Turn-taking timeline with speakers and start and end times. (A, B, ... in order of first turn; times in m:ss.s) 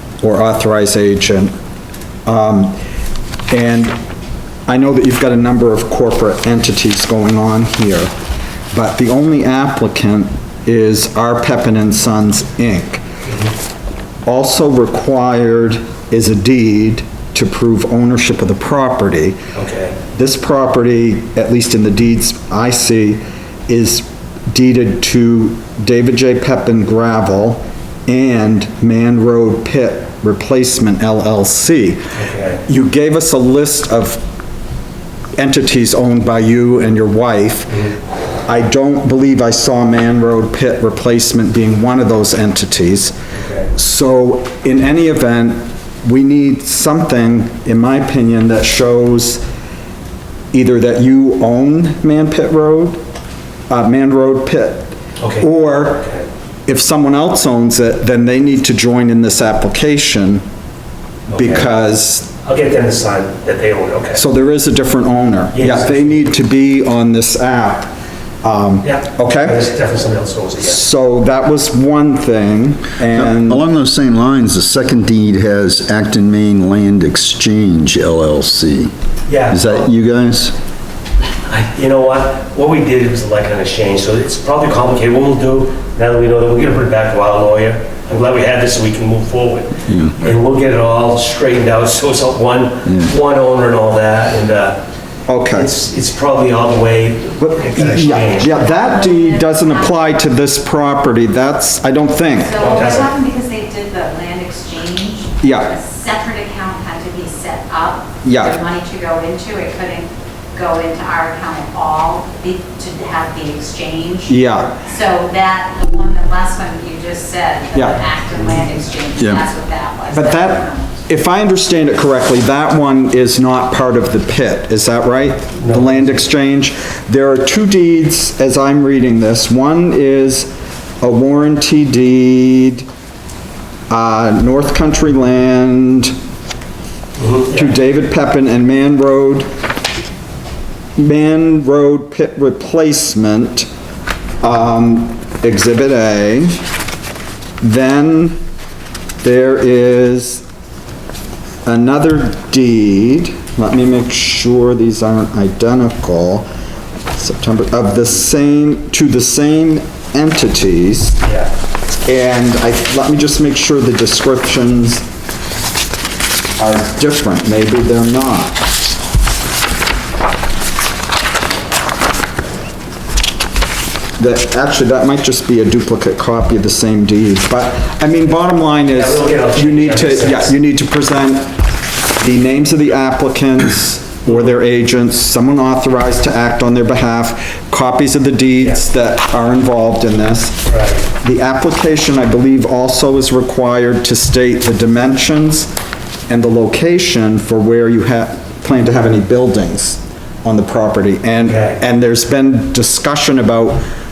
0:00.2-0:01.5 A
0:02.2-0:02.8 A
0:03.5-0:04.0 A
0:04.7-0:08.1 A
0:08.7-0:13.0 A
0:14.2-0:19.4 A
0:19.5-0:20.0 B
0:20.1-0:32.0 A
0:32.1-0:32.6 B
0:32.6-0:34.2 A
0:35.4-0:37.9 A
0:38.4-0:43.1 A
0:43.7-0:49.4 A
0:50.5-0:53.0 A
0:53.7-0:56.0 A
0:55.2-0:56.2 B
0:56.7-1:00.4 A
1:01.3-1:01.7 B
1:01.3-1:02.3 A
1:02.4-1:04.2 B
1:04.1-1:07.9 A
1:05.5-1:06.3 B
1:08.4-1:09.6 A
1:08.8-1:10.8 B
1:10.6-1:13.6 A
1:13.0-1:18.9 C
1:19.3-1:19.8 B
1:19.5-1:20.6 C
1:21.4-1:34.8 B
1:29.8-1:30.2 C
1:32.8-1:33.1 C
1:35.3-1:35.7 A
1:35.5-1:38.6 B
1:37.4-1:42.6 A
1:38.0-1:40.1 D
1:42.3-2:01.0 D
1:42.6-1:43.1 B
1:45.4-1:45.7 A
1:48.2-1:48.6 A
1:54.3-1:54.8 A
1:57.7-1:58.0 A
1:59.2-1:59.4 C
2:00.1-2:12.8 A
2:05.6-2:06.2 B
2:13.9-2:16.1 A
2:17.2-2:17.7 B
2:17.5-2:19.5 A
2:21.0-2:23.7 A
2:24.4-2:26.6 A
2:27.6-2:28.4 A
2:29.2-2:30.4 A
2:31.6-2:36.5 A
2:37.1-2:41.2 A
2:41.2-2:41.5 B
2:42.0-2:45.0 A
2:46.6-2:48.6 A
2:54.2-3:01.6 A
2:58.9-3:00.5 B
3:02.2-3:10.6 A
3:10.7-3:11.0 B
3:11.2-3:15.7 A
3:16.3-3:23.8 A
3:21.4-3:21.8 B